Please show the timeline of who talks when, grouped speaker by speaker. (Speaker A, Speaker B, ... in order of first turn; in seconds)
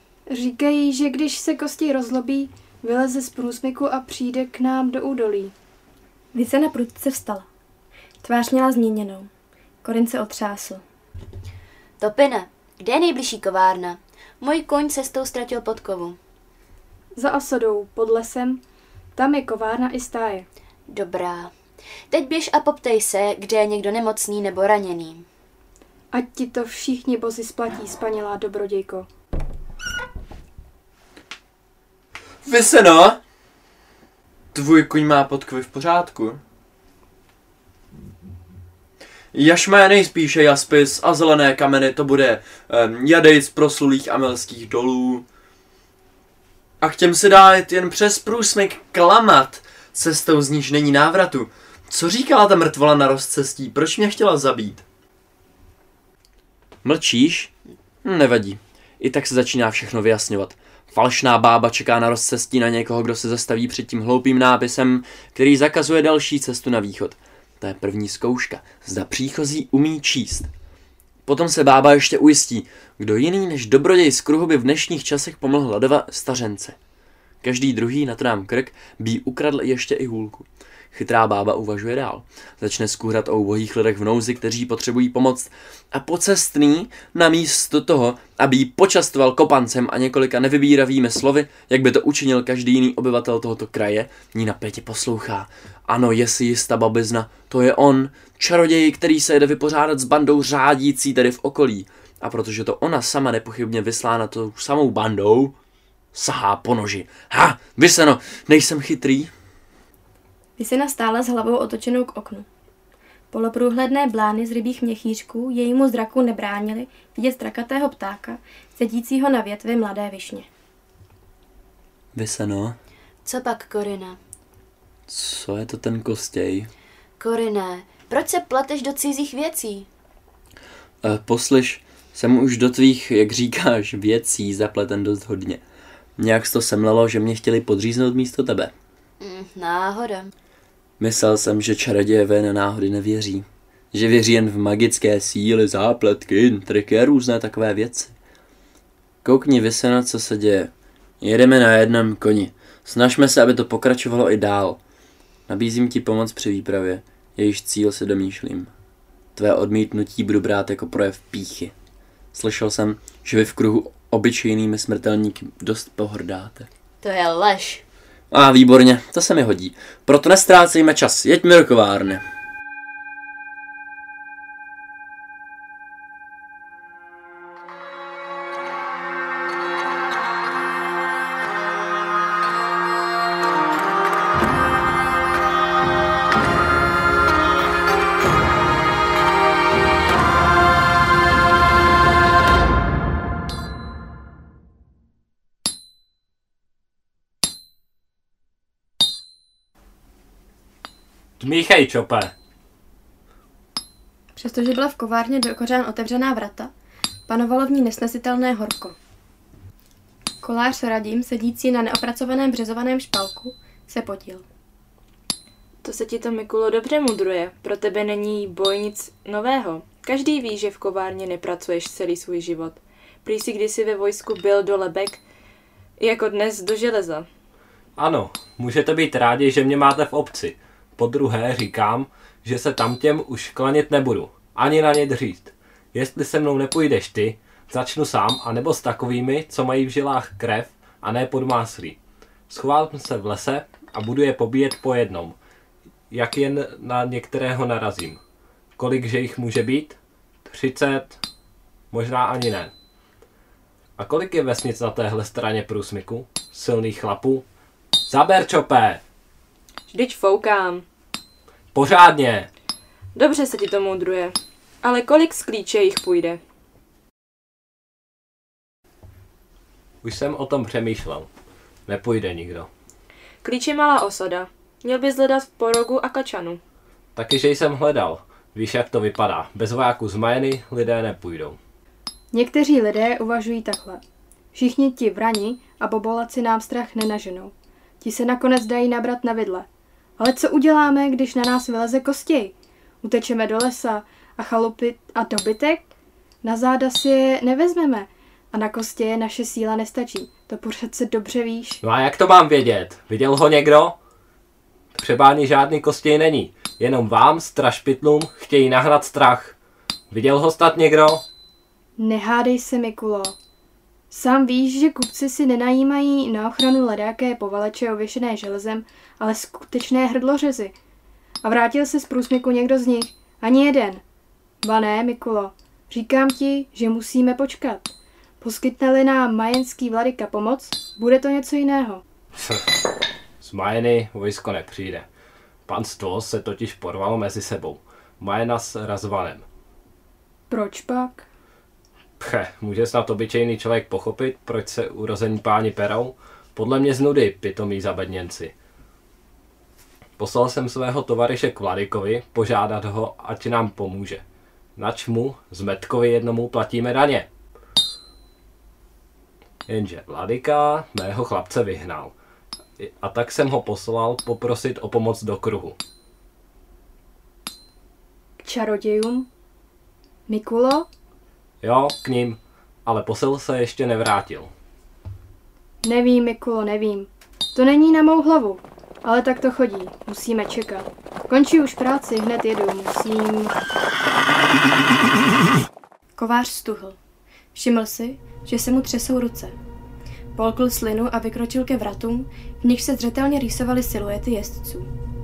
Speaker A: 0.3-5.5, 17.1-18.6, 19.1-20.5, 26.1-29.1, 282.3-284.0, 284.5-289.7, 290.2-295.9, 296.4-301.8, 312.0-313.4, 314.1-320.8, 321.4-324.0, 324.6-332.0, 340.5-341.3, 368.4-369.3, 370.3-370.9, 375.8-383.6
Speaker B: 6.3-7.5, 8.2-9.3, 9.8-10.8, 110.6-112.5, 113.3-120.5, 204.4-206.7, 207.3-209.0, 210.4-214.5, 386.2-387.0, 387.6-389.6, 390.4-394.9
Speaker C: 12.0-16.2, 20.9-21.5, 22.1-25.3, 123.2-124.2, 127.2-129.9, 139.2-140.3, 167.0-167.8
Speaker D: 32.4-33.2, 34.5-36.4, 39.3-45.3, 46.8-54.9, 56.8-57.5, 58.0-70.5, 71.3-76.8, 77.4-105.5, 106.1-109.3, 122.1-122.8, 125.1-126.7, 131.0-135.6, 136.2-138.7, 141.0-148.1, 149.2-154.8, 155.5-158.7, 159.4-161.7, 162.3-166.7, 168.3-172.2
Speaker E: 201.4-202.3, 228.0-242.0, 242.5-245.4, 246.1-248.2, 248.8-251.2, 251.9-252.7, 254.0-257.4, 258.1-259.0, 261.7-262.5, 270.0-271.3, 271.9-272.7, 277.1-281.6, 301.8-303.9, 305.0-309.6, 310.1-311.2, 332.4-332.7, 333.4-335.1, 335.7-339.4, 342.2-348.5, 350.2-354.2, 354.8-357.3, 359.7-362.1, 362.8-365.8, 371.6-374.5
Speaker F: 215.8-225.2, 226.0-227.3, 259.9-260.8, 263.1-266.4, 273.4-276.6